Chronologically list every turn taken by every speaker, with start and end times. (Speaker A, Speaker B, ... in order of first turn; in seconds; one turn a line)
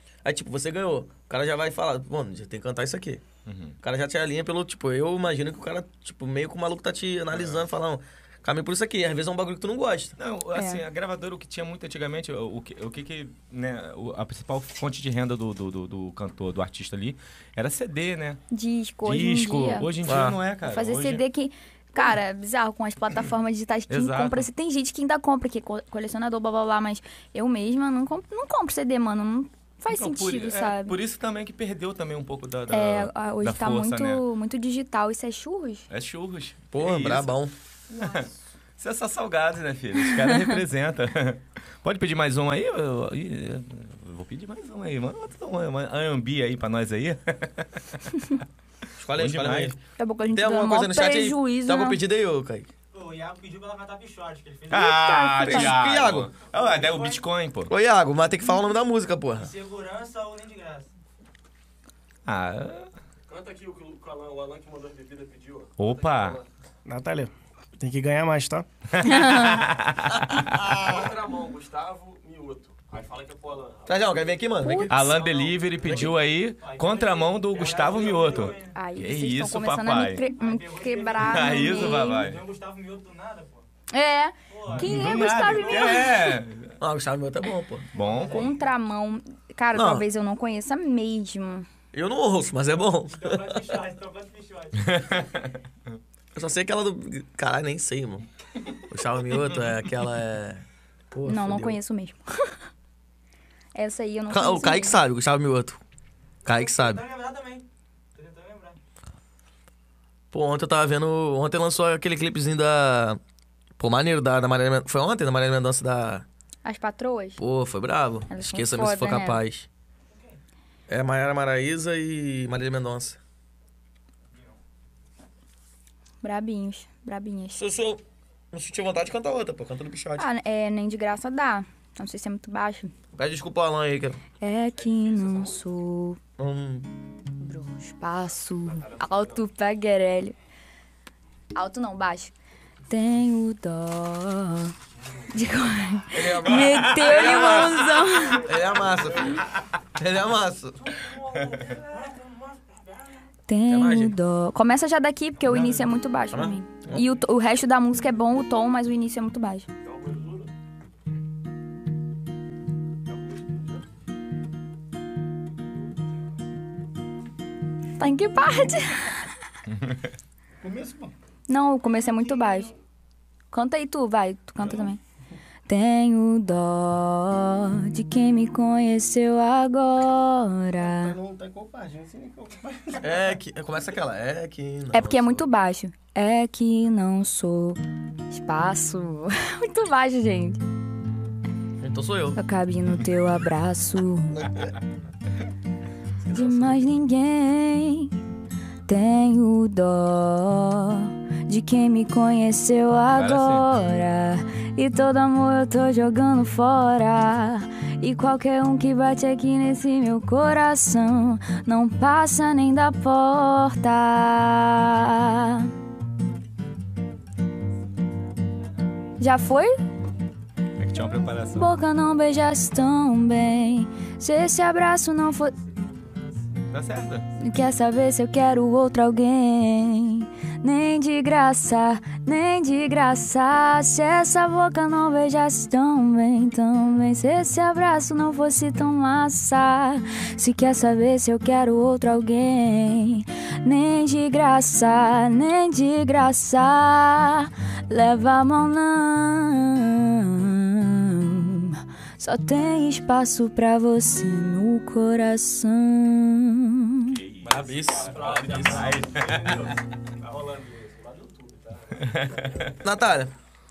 Speaker A: 0.2-3.2
Speaker B: 3.5-3.8
Speaker A: 3.8-10.2
Speaker B: 7.3-7.7
Speaker B: 10.2-18.4
Speaker C: 10.6-10.8
Speaker C: 18.5-19.9
Speaker B: 19.1-21.2
Speaker A: 20.1-20.4
Speaker C: 20.6-31.0
Speaker B: 23.9-24.5
Speaker B: 29.9-34.2
Speaker C: 32.7-35.9
Speaker B: 35.9-37.4
Speaker A: 36.7-37.5
Speaker B: 37.9-48.0
Speaker C: 40.2-40.6
Speaker A: 49.0-49.8
Speaker B: 49.1-49.8
Speaker C: 50.0-52.0
Speaker A: 50.3-52.7
Speaker D: 52.9-55.0
Speaker B: 54.7-57.7
Speaker C: 54.7-55.7
Speaker A: 55.4-56.3
Speaker D: 56.5-57.2
Speaker A: 57.7-59.5
Speaker D: 59.4-60.9
Speaker B: 62.2-62.9
Speaker E: 63.3-66.5
Speaker B: 65.8-66.4
Speaker F: 66.8-68.7
Speaker B: 68.9-71.1
Speaker C: 69.0-69.6
Speaker E: 70.7-74.3
Speaker A: 73.9-75.2
Speaker C: 74.6-75.0
Speaker B: 74.9-80.2
Speaker E: 75.1-76.0
Speaker A: 75.8-76.1
Speaker D: 76.6-78.8
Speaker E: 77.6-78.3
Speaker C: 78.7-82.3
Speaker D: 80.3-83.7
Speaker B: 81.2-82.4
Speaker C: 83.9-86.4
Speaker D: 84.5-86.3
Speaker B: 84.7-86.8
Speaker A: 86.8-87.9
Speaker B: 87.9-88.5
Speaker D: 88.0-88.6
Speaker C: 88.3-91.7
Speaker A: 89.7-90.0
Speaker A: 91.9-93.7
Speaker D: 93.0-95.2
Speaker B: 94.9-95.6
Speaker A: 96.3-98.3
Speaker A: 98.9-101.8
Speaker C: 101.2-102.2
Speaker C: 103.8-105.0
Speaker A: 104.3-105.8
Speaker A: 106.5-107.0
Speaker D: 106.5-108.8
Speaker A: 110.3-113.2
Speaker A: 113.8-116.2
Speaker C: 116.6-117.4
Speaker A: 117.4-119.7
Speaker C: 118.3-119.4
Speaker A: 120.9-123.2
Speaker C: 126.2-127.6
Speaker A: 127.5-130.3
Speaker C: 130.2-132.9
Speaker A: 133.2-134.2
Speaker C: 134.4-136.2
Speaker A: 136.4-136.9
Speaker C: 137.4-140.3
Speaker C: 141.6-142.3
Speaker C: 142.9-144.7
Speaker C: 145.3-148.5
Speaker A: 146.1-151.0
Speaker D: 150.9-153.2
Speaker C: 153.5-159.7
Speaker A: 153.7-154.2
Speaker A: 156.3-157.1
Speaker C: 168.0-169.3
Speaker B: 169.7-170.1
Speaker F: 170.6-171.1
Speaker C: 171.5-172.7
Speaker F: 172.1-172.6
Speaker C: 173.5-175.0
Speaker F: 174.6-174.9
Speaker C: 175.7-181.2
Speaker F: 180.8-183.4
Speaker A: 183.0-185.4
Speaker C: 184.9-187.8
Speaker C: 188.3-190.6
Speaker A: 191.8-192.4
Speaker C: 192.4-194.5
Speaker A: 194.4-194.7
Speaker A: 196.2-196.9
Speaker C: 196.3-198.1
Speaker C: 198.9-215.7
Speaker B: 203.1-203.7
Speaker C: 219.2-219.8
Speaker B: 220.8-221.7
Speaker C: 221.5-225.6
Speaker B: 226.7-227.2
Speaker C: 227.4-257.2
Speaker E: 257.4-259.7
Speaker A: 257.4-259.0
Speaker B: 258.6-259.8
Speaker E: 260.2-261.9
Speaker B: 261.9-262.8
Speaker A: 262.8-263.3